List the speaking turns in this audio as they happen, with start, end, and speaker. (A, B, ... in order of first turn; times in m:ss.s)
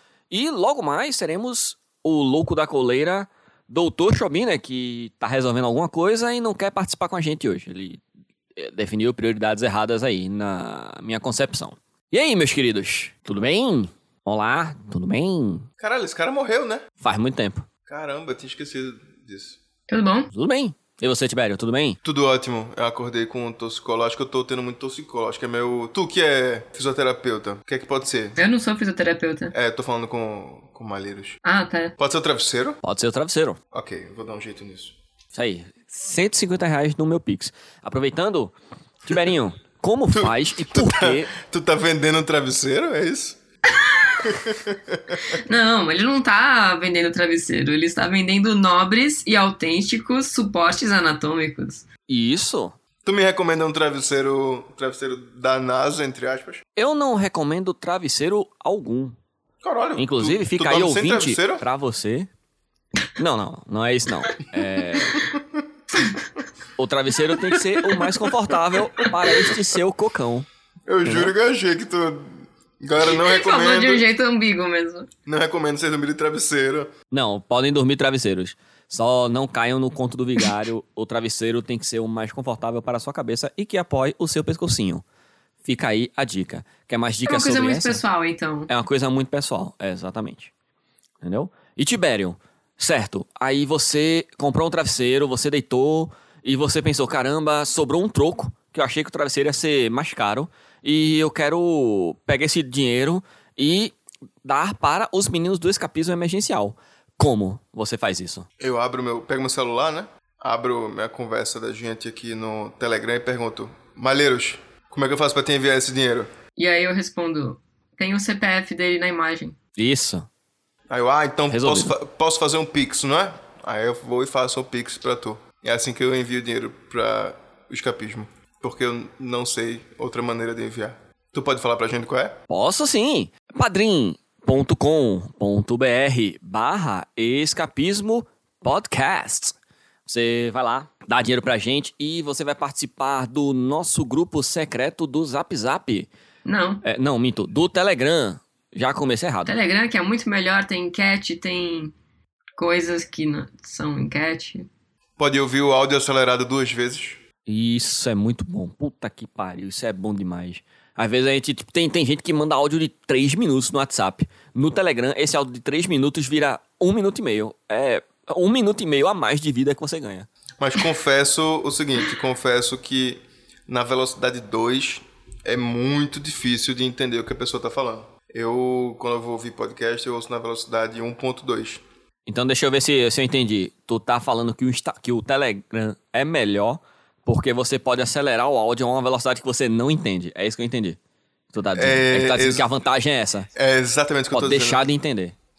0:00.3-0:08.0 A
0:08.6-0:15.7 A
0:15.8-0:16.8 B
0:17.0-0:17.7 A
0:17.9-0:19.6 B
0:19.9-0:20.3 C
0:20.3-0:22.0 A
0:22.0-0:28.4 B
0:28.4-0:29.5 C
0:29.5-0:31.4 B
0:31.4-0:32.0 C
0:32.0-0:32.8 B
0:32.8-0:33.6 A
0:33.7-0:35.0 B
0:35.3-0:38.5 A
0:39.0-0:41.4 A
0:40.2-0:43.4 B
0:43.8-0:44.3 C
0:44.2-0:45.3 B
0:45.3-0:51.8 C
0:52.1-0:52.8 A
0:53.0-0:56.6 B
0:56.8-0:59.2 A
0:59.6-1:01.6 B
1:00.0-1:02.3 A
1:03.2-1:05.3 A
1:06.8-1:10.5 A
1:07.5-1:08.2 C
1:10.9-1:14.0 B
1:11.0-1:11.3 A
1:13.1-1:15.1 C
1:15.3-1:16.9 B
1:17.1-1:25.0 A
1:25.6-1:28.0 A
1:27.3-1:28.7 C
1:28.7-1:30.5 A
1:31.2-1:48.5 A
1:48.6-1:56.3 B
1:56.6-1:59.6 C
1:59.8-2:00.3 A
2:00.9-2:12.4 B
2:01.5-2:01.9 A
2:12.5-2:19.6 A
2:20.1-2:26.1 A
2:26.4-2:26.8 C
2:26.8-2:29.5 A
2:29.5-2:31.9 C
2:32.6-2:34.7 C
2:35.2-2:37.2 B
2:37.5-2:50.3 A
2:50.6-3:01.8 B
3:02.3-3:11.0 A
3:11.5-3:13.5 A
3:11.8-3:12.7 B
3:13.6-3:14.8 B
3:14.3-3:15.4 A